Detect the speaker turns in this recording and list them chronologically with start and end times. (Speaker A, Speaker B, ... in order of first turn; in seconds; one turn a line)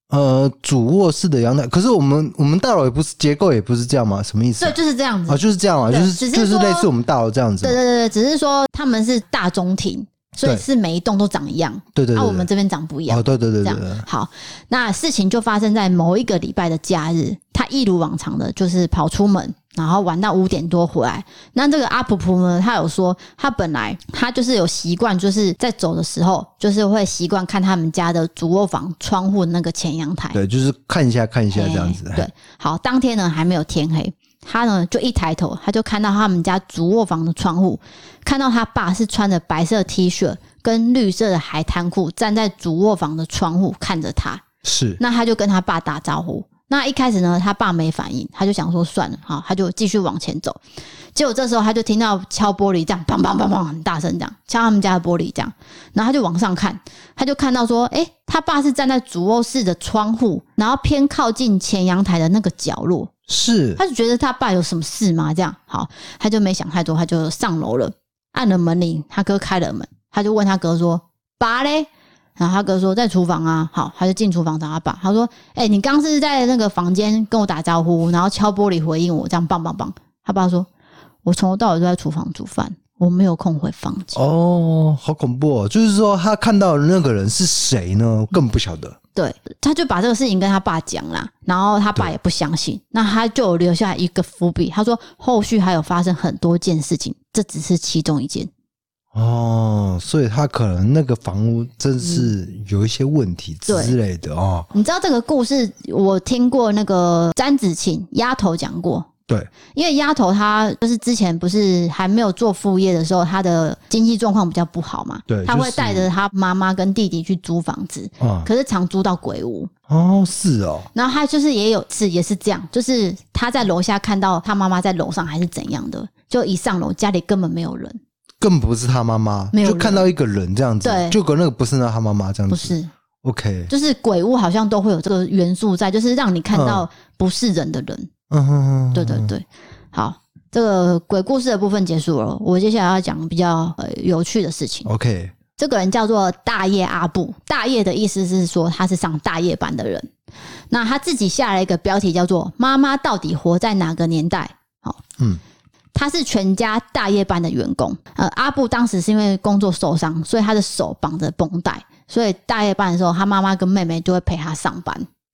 Speaker A: 0.1-7.8
Speaker B: 4.6-6.9
Speaker B: 7.6-30.4
Speaker A: 11.9-12.5
Speaker A: 13.1-14.1
Speaker A: 30.3-32.3
Speaker B: 31.5-44.4
Speaker A: 44.6-45.0
Speaker B: 45.0-50.6
Speaker B: 51.1-63.1
Speaker A: 63.3-63.8
Speaker B: 63.8-80.7
Speaker B: 81.2-84.2
Speaker A: 84.2-89.0
Speaker B: 89.2-98.5
Speaker A: 99.1-104.7
Speaker B: 102.0-102.3
Speaker B: 103.7-104.0
Speaker B: 104.7-109.1
Speaker B: 109.7-119.7
Speaker A: 115.3-116.1
Speaker A: 118.2-118.5
Speaker A: 119.9-120.9
Speaker B: 120.9-128.0
Speaker A: 128.4-133.7
Speaker B: 129.5-130.1
Speaker B: 130.8-131.2
Speaker B: 132.5-132.9
Speaker B: 133.7-138.1
Speaker A: 136.5-136.9
Speaker A: 138.3-139.3
Speaker B: 138.9-144.9
Speaker A: 144.8-145.3
Speaker B: 145.6-150.1
Speaker B: 150.7-155.0
Speaker B: 155.9-165.1